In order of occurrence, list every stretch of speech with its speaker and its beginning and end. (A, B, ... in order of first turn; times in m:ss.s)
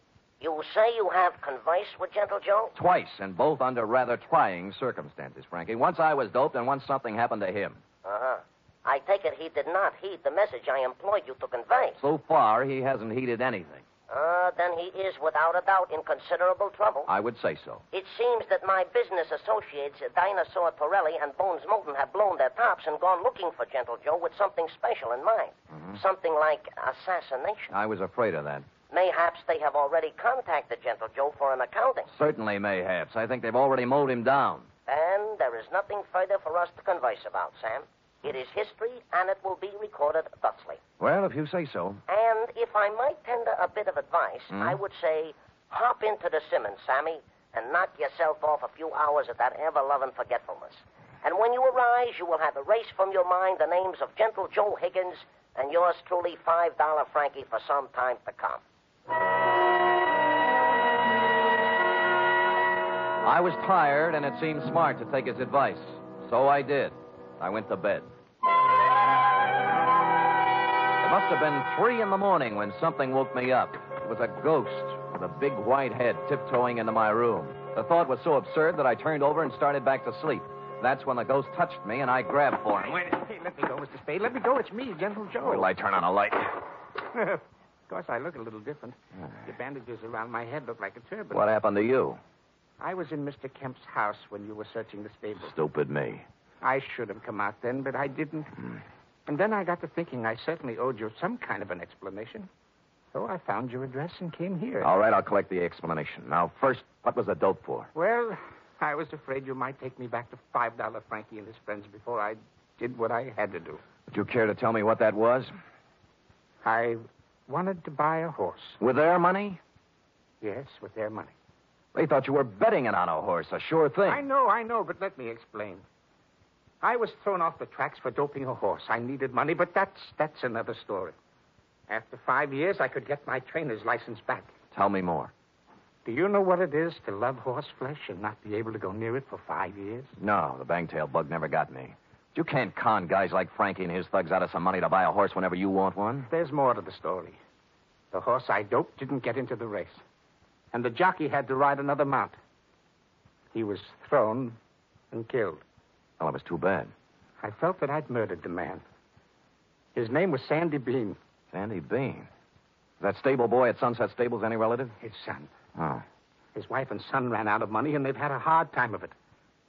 0:00.4-0:02.7 A
0:02.8-0:07.8 B
0:08.0-0:12.0 A
0:12.0-0:13.8 B
0:14.1-0:17.1 A
0:17.1-0:17.8 B
0:17.9-0:27.7 A
0:25.7-0:26.0 B
0:27.7-0:28.7 B
0:28.9-0:32.1 A
0:32.1-0:34.7 B
0:34.9-0:40.8 A
0:41.0-0:42.0 B
0:42.1-0:58.6 A
0:44.5-0:44.8 B
1:03.2-1:08.1 B
1:11.0-1:23.0 B
1:22.8-1:25.7 C
1:25.4-1:26.6 B
1:27.1-1:31.4 C
1:31.3-1:32.2 B
1:32.8-1:35.5 C
1:35.4-1:36.2 B
1:36.6-1:38.5 C
1:39.3-1:42.5 C
1:43.1-1:44.9 C
1:44.8-1:47.9 B
1:48.0-1:53.8 C
1:54.1-1:55.5 B
1:56.6-1:58.8 C
1:58.8-1:59.6 B
2:00.4-2:01.3 C
2:01.9-2:04.2 B
2:04.1-2:05.8 C
2:06.8-2:11.2 C
2:11.9-2:14.5 C
2:14.7-2:15.3 B
2:16.0-2:20.1 C
2:20.2-2:26.3 B
2:26.3-2:27.4 C
2:28.1-2:30.0 C
2:30.7-2:32.4 C
2:33.5-2:34.6 C
2:35.1-2:35.6 C
2:36.2-2:36.9 B
2:37.4-2:38.8 C
2:40.0-2:41.2 C
2:41.5-2:42.3 B
2:43.0-2:45.0 B
2:45.0-2:45.5 C
2:45.8-2:46.0 B
2:46.5-2:49.1 C